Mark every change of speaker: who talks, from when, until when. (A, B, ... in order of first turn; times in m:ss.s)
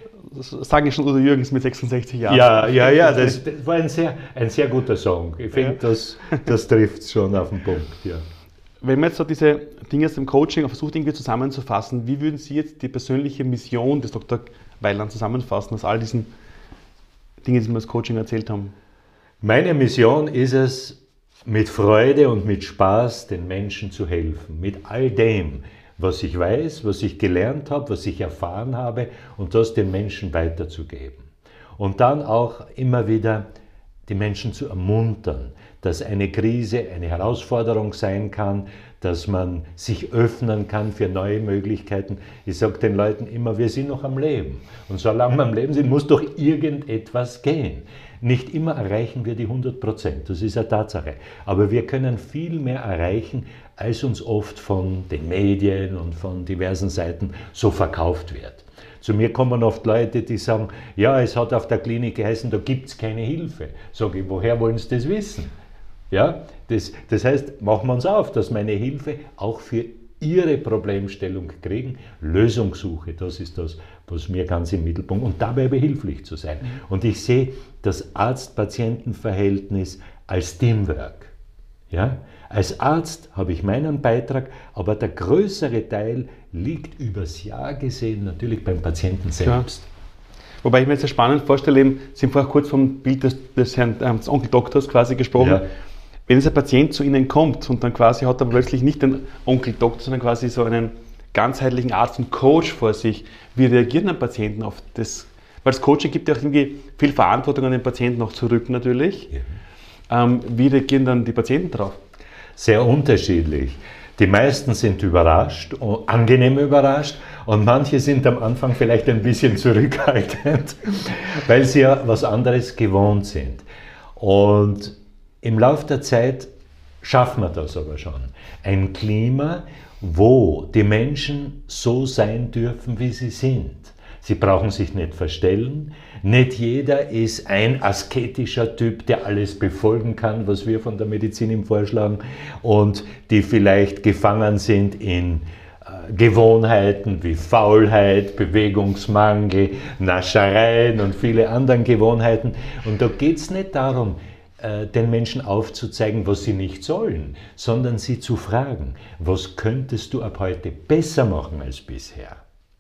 0:00.3-0:03.4 A
0:02.3-0:08.2 B
0:08.8-0:16.3 A
0:17.4-0:18.7 A
0:19.4-0:33.5 B
0:34.1-1:05.5 B
1:06.1-1:21.3 B
1:21.9-1:29.9 B
1:29.4-1:29.7 A
1:30.6-1:35.6 A
1:35.4-1:35.6 B
1:36.3-1:49.4 A
1:50.1-1:52.0 A
1:52.6-2:03.6 B
2:04.2-2:06.5 B
2:07.0-2:42.4 B